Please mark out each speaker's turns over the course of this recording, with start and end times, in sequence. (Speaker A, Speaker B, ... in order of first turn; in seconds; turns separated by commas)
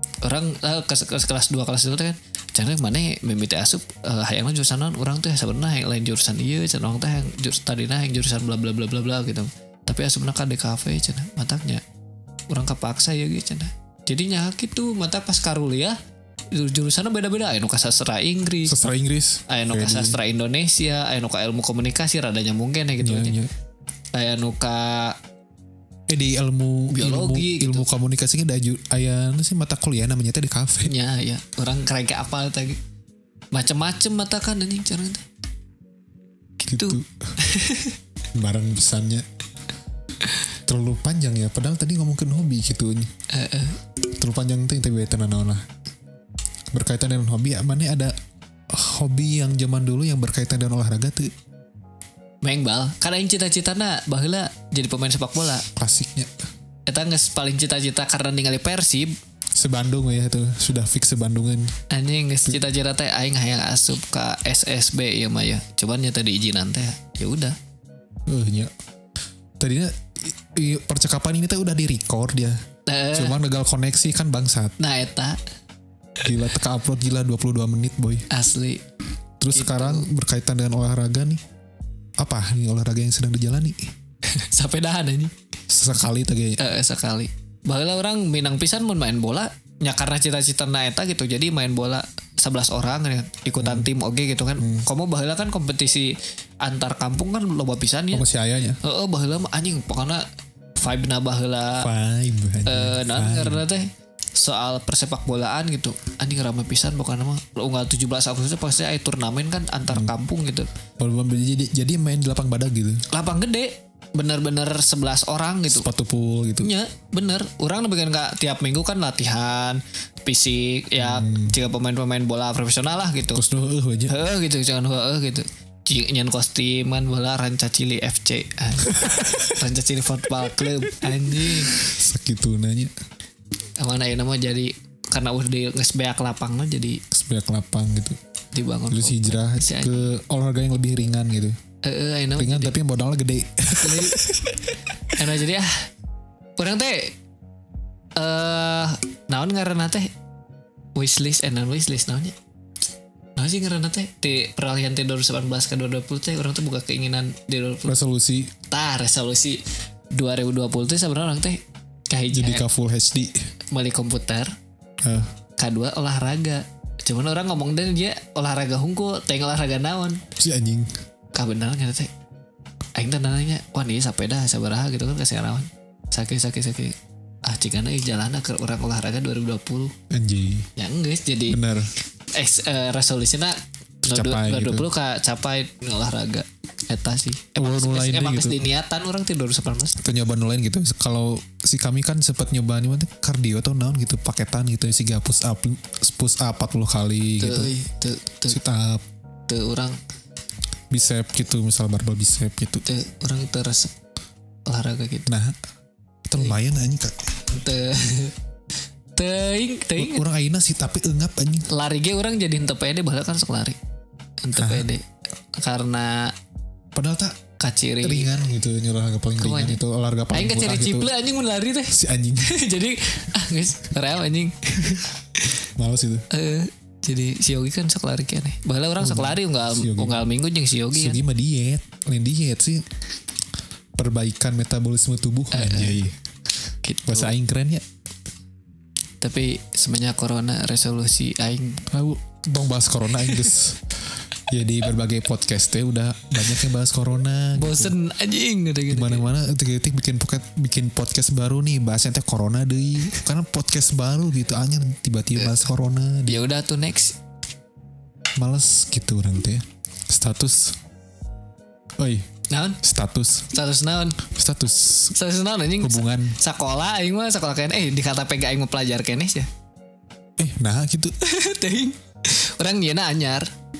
Speaker A: 0.2-11.8, Speaker A: 12.5-16.0, Speaker A: 16.5-18.7, Speaker B: 18.6-20.2, Speaker A: 19.5-23.4, Speaker B: 23.0-23.5, Speaker A: 24.1-25.2, Speaker B: 26.1-30.9, Speaker A: 26.9-27.9, Speaker A: 30.8-32.8, Speaker A: 33.5-35.2, Speaker A: 36.6-38.0, Speaker B: 36.7-37.3, Speaker B: 38.3-39.2, Speaker B: 40.6-43.1, Speaker A: 43.3-43.8, Speaker B: 44.0-45.6, Speaker B: 46.7-48.1, Speaker B: 48.7-51.3, Speaker A: 52.4-55.6, Speaker B: 55.7-56.3, Speaker A: 56.9-59.1, Speaker B: 59.5-61.7, Speaker A: 61.9-67.5, Speaker B: 68.3-68.7, Speaker B: 69.6-72.6, Speaker A: 72.9-73.3, Speaker B: 73.1-74.8, Speaker A: 74.8-75.4, Speaker B: 76.2-78.3, Speaker A: 78.3-78.8, Speaker B: 79.4-81.4, Speaker A: 79.5-80.1, Speaker B: 82.2-83.9, Speaker A: 84.2-85.3, Speaker B: 85.7-86.6, Speaker A: 86.6-98.2, Speaker B: 93.6-93.9, Speaker B: 94.6-94.9, Speaker B: 98.1-98.8, Speaker A: 98.8-100.2, Speaker A: 100.8-101.9, Speaker B: 101.8-103.6, Speaker A: 102.7-110.7, Speaker B: 111.0-113.0, Speaker A: 113.1-115.9, Speaker B: 115.7-116.7, Speaker A: 116.6-123.4, Speaker B: 121.0-121.6, Speaker B: 123.3-124.1, Speaker A: 124.1-131.8, Speaker B: 128.8-129.5, Speaker B: 131.0-132.9, Speaker A: 133.8-137.0, Speaker B: 137.1-138.2, Speaker A: 138.5-140.0, Speaker B: 138.9-141.6, Speaker A: 141.8-142.8, Speaker B: 142.4-144.6, Speaker A: 143.7-145.8, Speaker A: 146.6-147.2, Speaker A: 148.2-150.1, Speaker A: 150.9-152.3, Speaker A: 153.3-157.9, Speaker B: 157.8-158.5, Speaker A: 158.7-159.6, Speaker A: 160.1-162.6, Speaker B: 162.3-163.5, Speaker A: 163.7-164.5, Speaker B: 165.0-165.3, Speaker A: 165.6-170.2, Speaker B: 170.4-170.9, Speaker A: 171.3-172.1, Speaker A: 172.9-179.9, Speaker B: 180.1-180.7, Speaker A: 180.8-181.6, Speaker B: 181.5-181.9, Speaker A: 182.3-190.0, Speaker B: 184.0-184.9, Speaker B: 187.6-188.6, Speaker B: 190.0-197.7, Speaker A: 197.4-198.6, Speaker B: 198.5-199.0, Speaker A: 199.5-200.0, Speaker B: 200.9-202.8, Speaker A: 202.8-203.9, Speaker A: 204.7-205.3, Speaker B: 205.3-205.6, Speaker B: 206.3-207.2, Speaker A: 207.5-208.3, Speaker A: 209.2-210.2, Speaker B: 210.0-211.7, Speaker A: 211.7-213.8, Speaker A: 214.4-216.3, Speaker B: 214.6-214.9, Speaker B: 216.9-217.4, Speaker A: 217.6-218.3, Speaker B: 218.0-221.1, Speaker A: 219.4-219.8, Speaker A: 220.3-225.6, Speaker B: 221.9-222.6, Speaker B: 225.7-226.2, Speaker A: 226.3-231.2, Speaker B: 229.0-230.2, Speaker B: 230.9-232.8, Speaker B: 233.9-236.2, Speaker A: 235.5-236.0, Speaker A: 236.8-237.4, Speaker B: 237.1-237.8, Speaker A: 239.2-241.8, Speaker B: 241.9-247.9, Speaker A: 243.2-243.5, Speaker A: 247.5-249.3, Speaker B: 248.9-256.4, Speaker A: 255.4-255.6, Speaker A: 256.3-257.2, Speaker B: 258.4-260.8, Speaker B: 262.0-262.3, Speaker A: 262.5-262.8, Speaker B: 262.8-263.5, Speaker A: 263.5-264.2, Speaker B: 264.2-265.1, Speaker A: 265.1-269.5, Speaker B: 265.8-266.4, Speaker B: 270.4-271.1, Speaker A: 271.2-273.5